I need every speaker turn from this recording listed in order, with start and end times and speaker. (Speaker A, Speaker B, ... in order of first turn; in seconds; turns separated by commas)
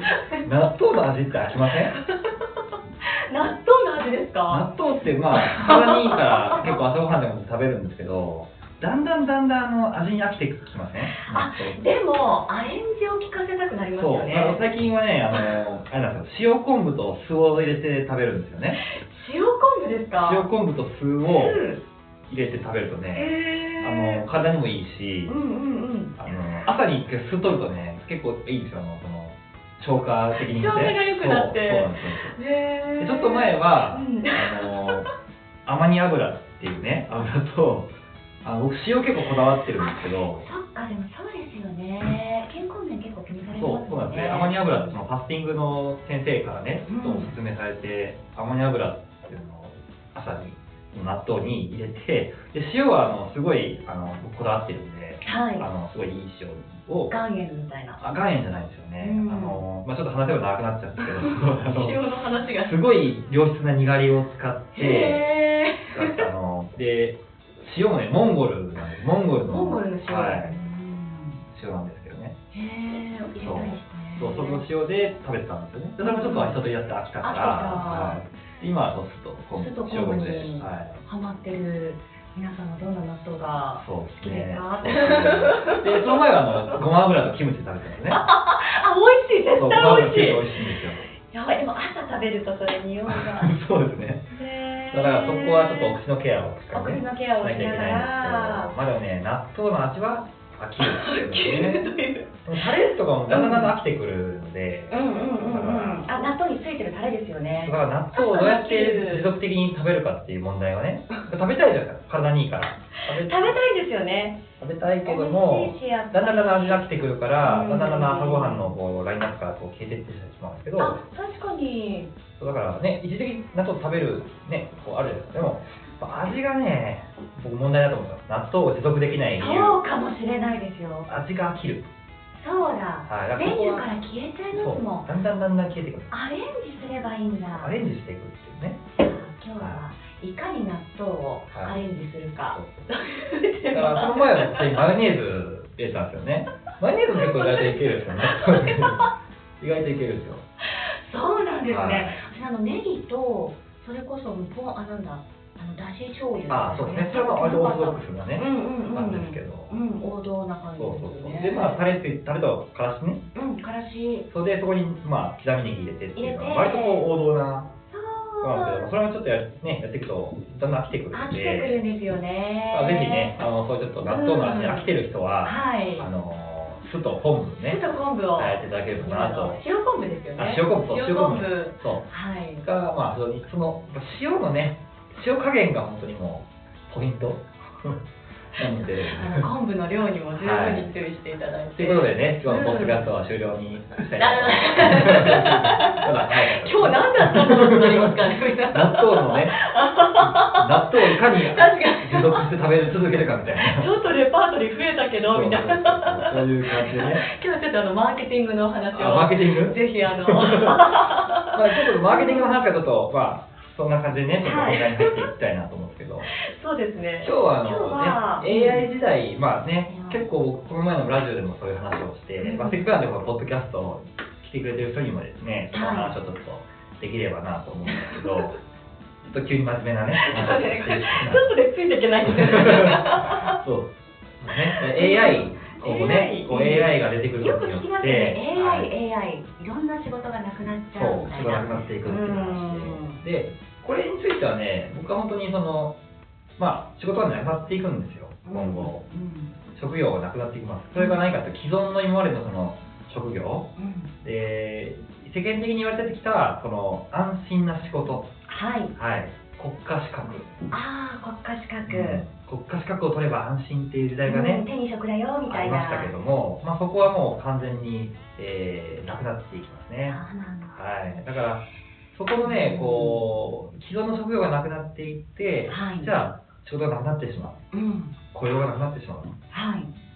Speaker A: 0.4-2.0, Speaker B: 3.0-4.7, Speaker A: 4.5-11.8, Speaker B: 5.3-6.8, Speaker B: 11.0-14.6, Speaker A: 13.9-18.8, Speaker B: 18.9-20.5, Speaker A: 20.2-21.6, Speaker B: 21.2-21.8, Speaker A: 22.3-25.4, Speaker B: 23.1-24.2, Speaker B: 25.3-26.7, Speaker A: 26.2-32.4, Speaker B: 30.3-35.0, Speaker A: 33.0-35.1, Speaker A: 35.6-40.5, Speaker B: 39.8-45.0, Speaker A: 43.5-57.2, Speaker B: 46.9-47.3, Speaker B: 55.2-55.7, Speaker B: 57.1-58.0, Speaker A: 58.0-62.0, Speaker B: 59.0-59.6, Speaker B: 61.0-62.8, Speaker A: 62.5-65.3, Speaker B: 64.8-66.3, Speaker A: 65.9-70.5, Speaker B: 69.4-71.4, Speaker A: 71.5-72.3, Speaker B: 72.5-74.7, Speaker A: 73.4-81.0, Speaker B: 76.0-76.6, Speaker B: 77.2-78.2, Speaker B: 79.6-86.8, Speaker A: 83.8-88.2, Speaker B: 88.1-90.6, Speaker A: 89.6-91.0, Speaker B: 91.3-93.6, Speaker A: 93.1-94.3, Speaker B: 94.3-96.0, Speaker A: 94.9-101.9, Speaker B: 96.7-98.7, Speaker B: 100.8-102.3, Speaker A: 102.5-106.1, Speaker B: 103.3-103.7, Speaker B: 104.9-109.3, Speaker A: 107.6-113.6, Speaker B: 113.0-114.4, Speaker A: 114.6-121.0, Speaker B: 115.0-116.9, Speaker B: 117.4-118.8, Speaker B: 120.8-122.1, Speaker A: 122.4-129.8, Speaker B: 129.4-131.1, Speaker A: 131.1-131.9, Speaker B: 132.3-135.1, Speaker A: 133.1-133.9, Speaker A: 134.5-136.1, Speaker B: 136.1-137.8, Speaker A: 137.6-138.9, Speaker B: 138.9-144.8, Speaker A: 139.6-139.8, Speaker A: 143.7-150.4, Speaker B: 147.2-149.1, Speaker B: 150.7-161.9, Speaker A: 151.7-152.2, Speaker A: 156.5-159.8, Speaker A: 160.8-163.2, Speaker B: 163.3-164.3, Speaker A: 164.3-167.7, Speaker B: 166.2-167.1, Speaker B: 167.9-168.9, Speaker A: 168.4-171.8, Speaker B: 171.1-173.3, Speaker A: 172.7-177.8, Speaker B: 174.0-174.9, Speaker B: 175.4-176.1, Speaker B: 177.6-182.7, Speaker A: 178.4-179.6, Speaker A: 180.4-182.1, Speaker A: 182.6-188.0, Speaker A: 188.6-189.5, Speaker B: 188.8-193.1, Speaker A: 190.3-190.9, Speaker A: 191.8-199.6, Speaker B: 194.1-202.5, Speaker A: 200.2-203.9, Speaker B: 203.6-212.6, Speaker A: 205.3-207.3, Speaker A: 208.9-216.3, Speaker B: 214.4-215.3, Speaker B: 216.3-218.9, Speaker A: 217.2-228.6, Speaker B: 219.9-220.2, Speaker B: 222.4-222.9, Speaker B: 225.7-226.2, Speaker B: 227.9-228.5, Speaker A: 229.2-231.5, Speaker B: 230.2-233.6, Speaker A: 232.3-238.9, Speaker B: 234.5-243.2, Speaker A: 240.9-245.9, Speaker A: 246.6-249.1, Speaker B: 248.4-249.5, Speaker A: 249.7-253.7, Speaker B: 253.8-254.1, Speaker A: 254.2-258.3, Speaker B: 258.5-258.9, Speaker A: 258.9-260.5, Speaker B: 260.7-262.2, Speaker A: 261.9-264.7, Speaker B: 264.2-266.1, Speaker A: 265.5-270.2, Speaker B: 270.1-270.8, Speaker A: 270.7-277.6, Speaker B: 272.4-273.3, Speaker B: 275.7-276.1, Speaker B: 277.7-278.2, Speaker A: 278.3-279.4, Speaker B: 279.5-279.9